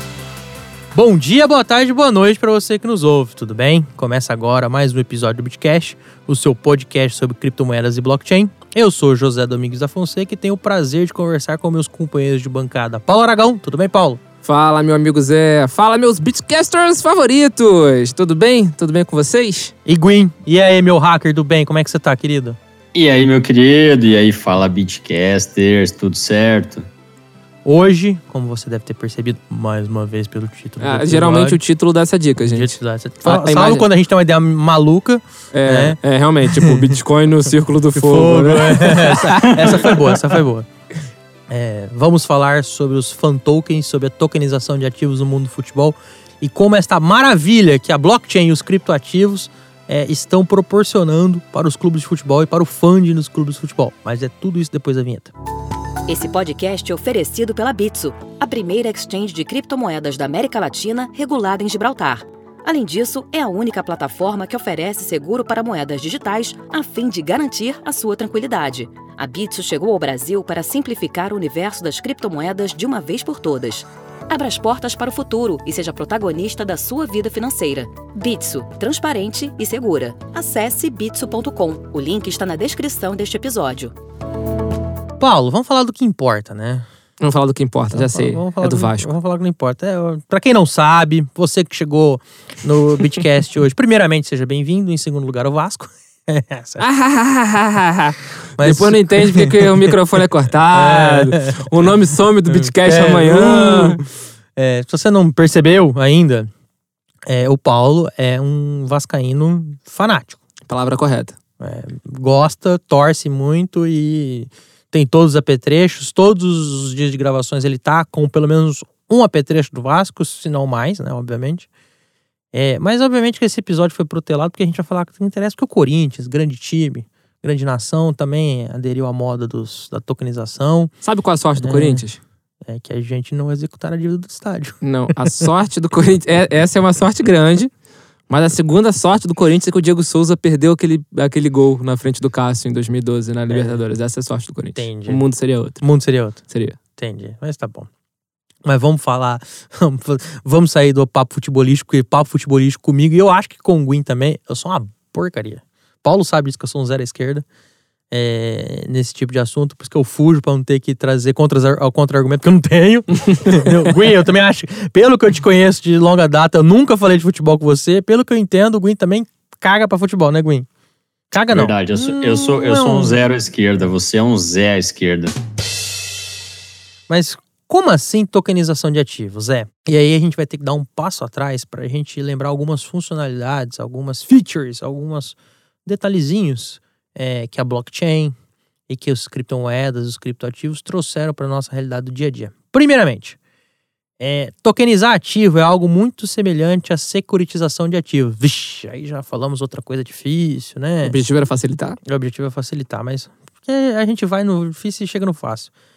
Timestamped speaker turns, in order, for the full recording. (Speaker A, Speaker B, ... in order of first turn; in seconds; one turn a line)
Speaker A: 0.9-14.2
Speaker B: 14.4-19.7
Speaker A: 19.9-22.6
Speaker C: 22.9-26.9
Speaker A: 27.6-31.6
Speaker B: 30.8-33.9
Speaker A: 32.4-36.9
Speaker B: 35.5-40.1
Speaker A: 37.9-40.7
Speaker A: 41.5-55.3
Speaker D: 56.1-84.0
Speaker A: 85.2-86.9
Speaker B: 87.2-89.1
Speaker A: 87.9-96.8
Speaker B: 96.8-104.0
Speaker A: 98.6-99.9
Speaker A: 100.7-101.7
Speaker A: 102.5-106.5
Speaker A: 107.3-110.4
Speaker B: 110.7-111.4
Speaker A: 111.6-121.7
Speaker A: 122.5-130.9
Speaker B: 131.0-132.2
Speaker A: 131.6-132.0
Speaker A: 132.7-135.5
Speaker B: 134.8-137.7
Speaker B: 138.3-145.8
Speaker A: 143.5-143.8
Speaker A: 144.8-145.2
Speaker A: 145.8-146.4
Speaker B: 146.5-146.8
Speaker A: 147.0-147.9
Speaker A: 148.7-157.4
Speaker A: 158.1-170.7
Speaker B: 163.3-163.6
Speaker A: 171.3-173.2
Speaker C: 171.5-175.3
Speaker A: 177.1-188.4
Speaker A: 188.9-193.4
Speaker A: 194.2-201.2
Speaker B: 201.0-202.0
Speaker A: 202.1-205.7